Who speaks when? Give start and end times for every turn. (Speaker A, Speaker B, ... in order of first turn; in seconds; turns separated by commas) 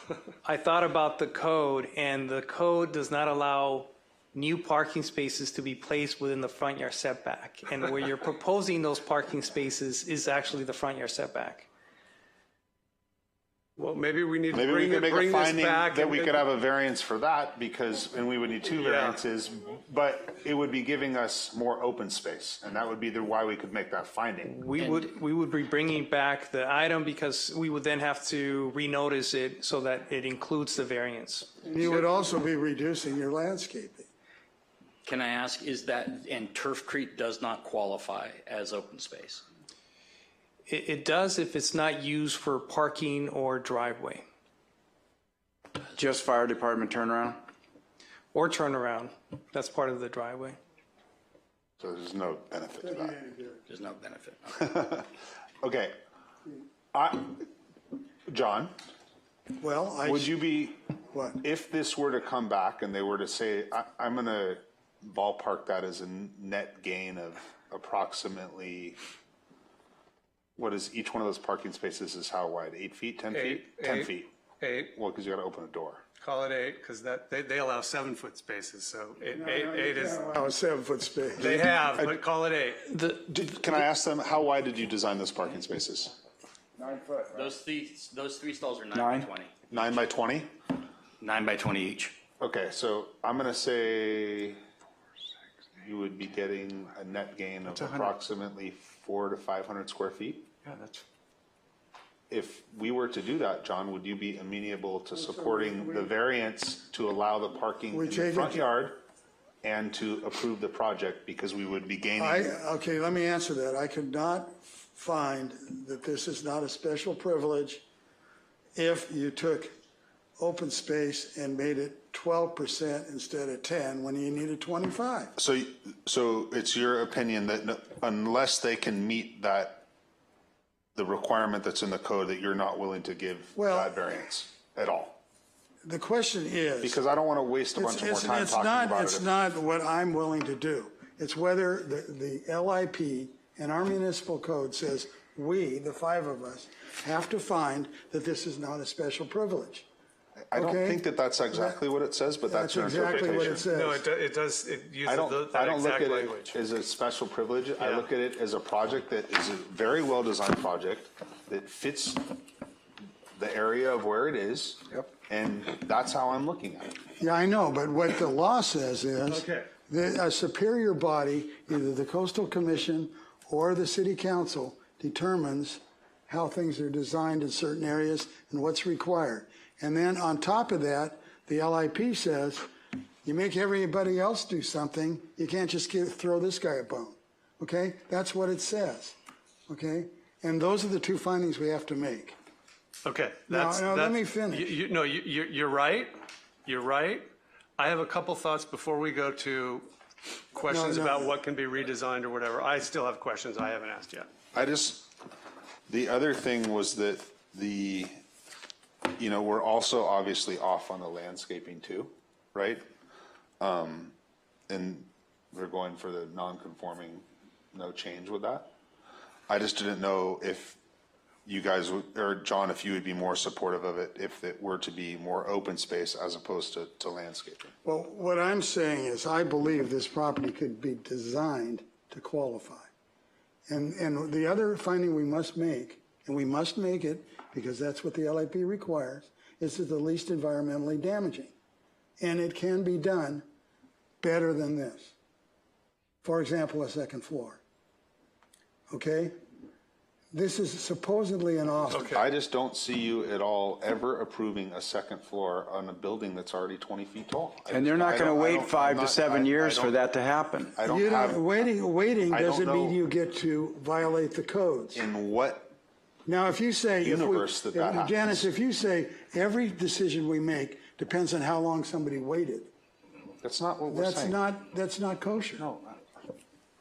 Speaker A: 0.4-11.7, Speaker B: 13.8-16.4, Speaker C: 14.5-24.6, Speaker B: 18.7-19.2, Speaker A: 24.4-31.5, Speaker D: 31.6-34.1, Speaker E: 35.0-39.4, Speaker A: 40.7-44.2, Speaker F: 45.9-47.4, Speaker A: 48.3-50.6, Speaker C: 51.8-53.1, Speaker D: 52.8-53.6, Speaker E: 53.7-54.4, Speaker C: 54.5-55.1, Speaker C: 55.6-56.0, Speaker C: 56.9-57.4, Speaker C: 58.3-58.7, Speaker D: 59.6-60.5, Speaker C: 60.0-60.8, Speaker D: 61.1-61.4, Speaker C: 61.4-69.0, Speaker C: 70.6-74.3, Speaker B: 73.3-74.9, Speaker C: 74.9-76.0, Speaker B: 76.2-80.2, Speaker D: 79.4-81.6, Speaker C: 81.4-82.2, Speaker B: 81.4-82.9, Speaker A: 82.9-83.8, Speaker C: 83.2-86.1, Speaker E: 87.2-89.5, Speaker F: 88.9-89.3, Speaker C: 89.7-90.5, Speaker E: 91.2-92.2, Speaker C: 92.4-94.6, Speaker C: 95.8-100.5, Speaker F: 100.7-101.0, Speaker C: 102.3-109.0, Speaker D: 105.1-106.1, Speaker D: 107.9-108.7, Speaker C: 109.6-112.6, Speaker D: 112.1-117.8, Speaker D: 118.8-119.7, Speaker D: 120.4-125.3, Speaker C: 125.3-129.8, Speaker C: 130.9-135.2, Speaker D: 133.5-134.2, Speaker D: 135.8-137.1, Speaker C: 136.8-139.3, Speaker D: 137.7-149.9, Speaker C: 150.4-153.7, Speaker D: 150.5-151.8, Speaker D: 152.4-154.0, Speaker B: 153.3-156.6, Speaker C: 155.0-162.3, Speaker B: 157.8-158.1, Speaker C: 163.3-167.0, Speaker D: 167.2-182.7, Speaker B: 169.3-169.7, Speaker D: 183.2-189.2, Speaker D: 189.7-192.4, Speaker B: 193.0-196.1, Speaker D: 193.5-194.7, Speaker B: 196.7-199.9, Speaker B: 200.5-204.3, Speaker D: 200.7-201.3, Speaker C: 204.5-205.1, Speaker C: 205.9-208.1, Speaker C: 209.2-212.8, Speaker C: 213.6-214.1, Speaker C: 214.7-218.7, Speaker C: 219.5-220.8, Speaker C: 221.4-227.7, Speaker D: 227.8-232.9, Speaker D: 233.7-241.5, Speaker D: 242.2-243.4, Speaker D: 244.2-245.1, Speaker D: 246.2-247.6, Speaker D: 248.9-249.3, Speaker D: 250.3-252.2, Speaker B: 251.9-252.2, Speaker C: 252.1-260.0, Speaker F: 257.7-260.7, Speaker C: 260.8-261.7, Speaker D: 260.8-265.1, Speaker C: 262.3-263.0, Speaker C: 264.9-265.7, Speaker D: 266.2-272.7, Speaker C: 267.0-268.4, Speaker C: 273.4-274.4, Speaker D: 273.9-275.6, Speaker C: 275.6-276.0